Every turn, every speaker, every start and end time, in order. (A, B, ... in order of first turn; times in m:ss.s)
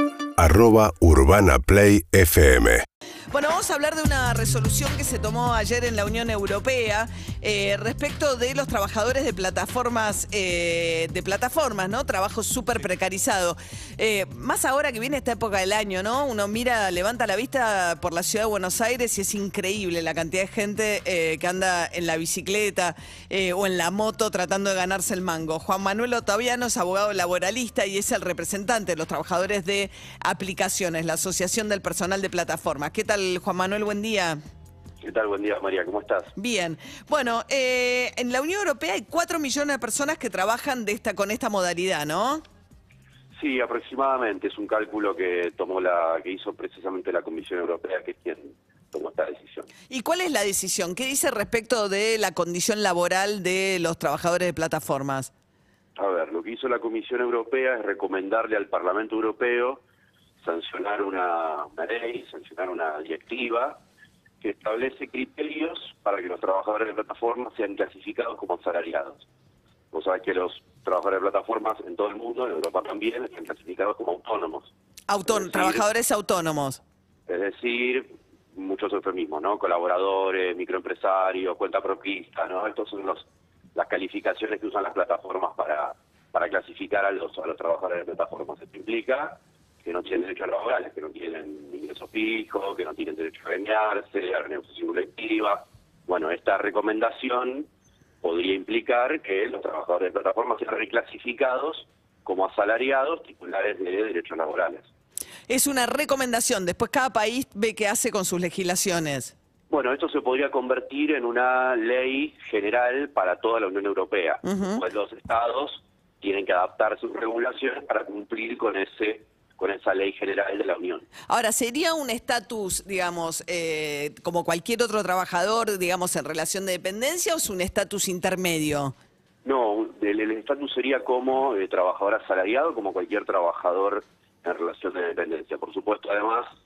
0:00.4-0:02.8 A
0:03.3-0:34.4 B
0:35.0-0:36.3 C
0:36.4-0:42.4 B
0:43.4-0:49.7 C
0:49.9-0:55.3 B
0:55.9-0:59.8 C
1:00.4-1:03.8 C
1:04.4-1:09.3 C
1:09.9-1:14.7 C
1:15.1-1:16.8 B
1:15.2-1:15.9 C
1:17.3-1:37.7 C
1:38.2-1:44.9 C
1:45.5-1:49.3 B
1:49.7-2:01.1 C
1:54.4-1:54.8 B
2:01.3-2:08.9 B
2:09.4-2:16.5 C